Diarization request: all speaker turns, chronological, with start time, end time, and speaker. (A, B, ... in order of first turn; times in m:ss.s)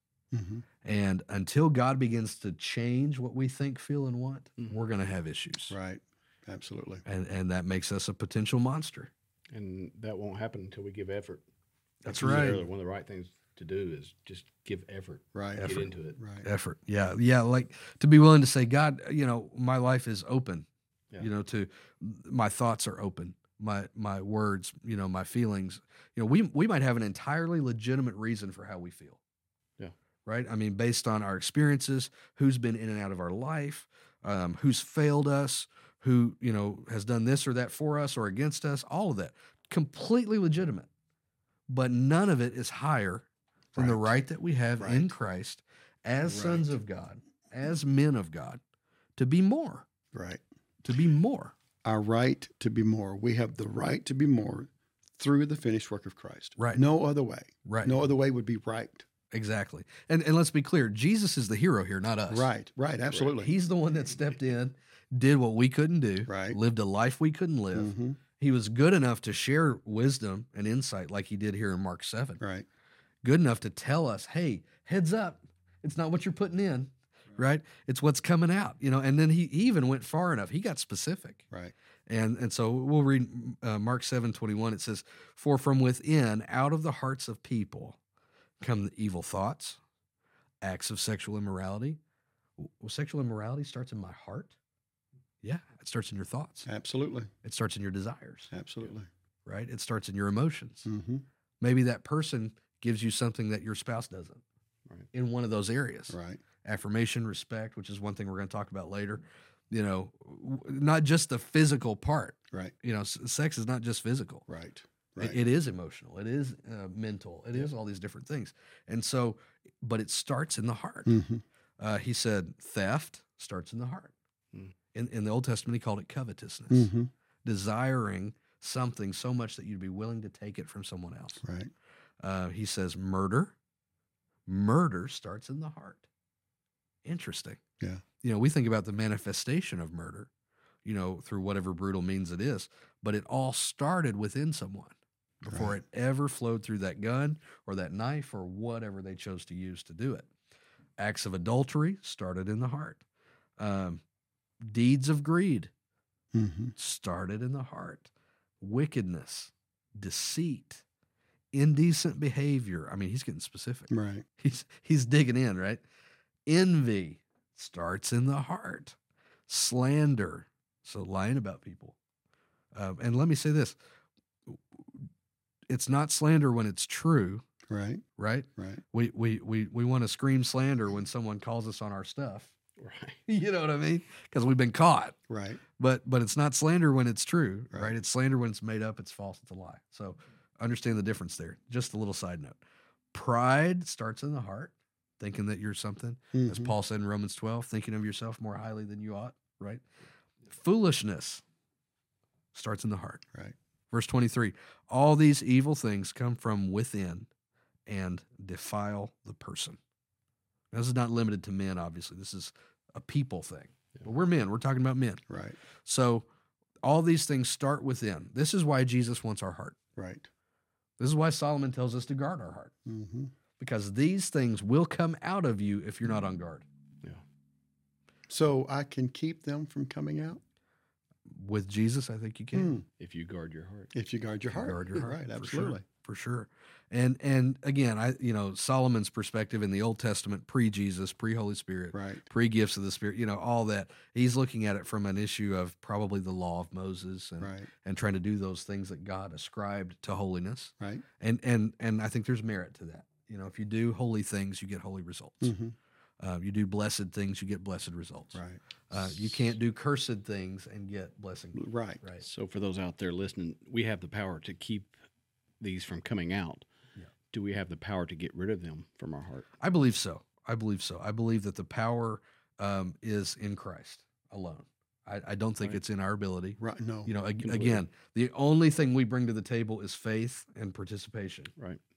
0:00.3-0:00.6 A
0:00.8-0:05.8 B
0:05.7-0:07.0 A
0:07.0-0:09.1 B
0:09.5-0:11.4 C
0:12.0-0:12.6 B
0:12.1-0:16.2 C
0:12.1-0:12.6 A
0:15.4-0:16.4 A
0:15.6-0:15.9 B
0:16.4-0:20.6 B
0:21.2-0:29.2 B
0:30.2-0:40.9 B
0:41.7-0:48.6 B
0:43.8-0:44.1 A
0:44.8-0:45.1 A
0:46.2-0:46.7 A
0:49.2-0:49.9 B
0:50.1-0:50.4 A
0:50.8-0:51.5 B
0:51.8-0:59.0 A
0:56.6-0:56.8 B
0:57.6-0:58.0 B
0:59.3-1:02.5 B
1:02.3-1:03.5 A
1:03.1-1:12.4 B
1:06.2-1:06.6 A
1:07.7-1:08.2 A
1:12.4-1:12.6 A
1:13.2-1:21.4 B
1:22.1-1:28.0 B
1:28.6-1:29.8 B
1:30.6-1:32.0 B
1:32.6-1:34.5 B
1:35.4-1:36.7 B
1:36.6-1:37.3 A
1:37.4-1:38.5 B
1:38.5-1:39.1 A
1:39.4-1:40.9 B
1:40.8-1:41.2 A
1:41.6-1:44.4 B
1:45.1-1:54.4 B
1:46.1-1:46.4 A
1:54.5-1:55.4 A
1:55.2-2:01.2 B
2:01.0-2:01.4 A
2:01.8-2:04.1 B
2:04.9-2:06.9 B
2:06.7-2:07.1 A
2:07.4-2:11.4 B
2:11.4-2:11.7 A
2:12.2-2:13.5 B
2:14.5-2:16.0 B
2:17.0-2:17.6 B
2:18.2-2:20.3 B
2:20.8-2:24.9 B
2:25.4-2:25.8 A
2:25.4-2:30.3 B
2:31.0-2:33.0 B
2:33.6-2:34.0 B
2:34.6-2:35.7 B
2:36.3-2:36.7 A
2:36.8-2:38.1 B
2:38.6-2:40.8 B
2:41.5-2:45.8 B
2:43.9-2:44.2 A
2:46.5-2:49.0 B
2:49.5-2:52.0 B
2:52.7-2:53.8 B
2:55.7-2:57.4 B
2:57.7-2:58.0 A
2:58.2-3:02.5 B
2:58.6-2:58.8 A
3:02.8-3:03.2 C
3:03.3-3:05.2 B
3:05.3-3:05.6 A
3:05.8-3:12.6 B
3:13.1-3:19.8 B
3:16.3-3:16.7 A
3:20.5-3:21.4 B
3:22.5-3:23.2 B
3:23.9-3:27.3 B
3:27.9-3:29.8 B
3:30.7-3:35.2 B
3:35.3-3:35.6 A
3:35.8-3:36.2 B
3:36.8-3:39.8 B
3:40.0-3:40.3 A
3:41.0-3:42.7 B
3:42.9-3:43.3 A
3:43.6-3:46.6 B
3:48.3-3:50.4 A
3:51.3-3:52.7 B
3:52.5-3:52.8 A
3:53.0-3:53.9 C
3:53.9-3:55.8 A
3:54.5-4:15.5 B
4:01.9-4:02.2 A
4:07.4-4:07.7 A
4:15.4-4:15.7 A
4:16.2-4:22.2 B
4:18.3-4:19.5 A
4:21.5-4:22.0 A
4:22.2-4:24.9 C
4:25.6-4:26.6 C
4:27.3-4:29.5 C
4:29.6-4:41.5 B
4:36.6-4:37.1 A
4:37.4-4:37.8 C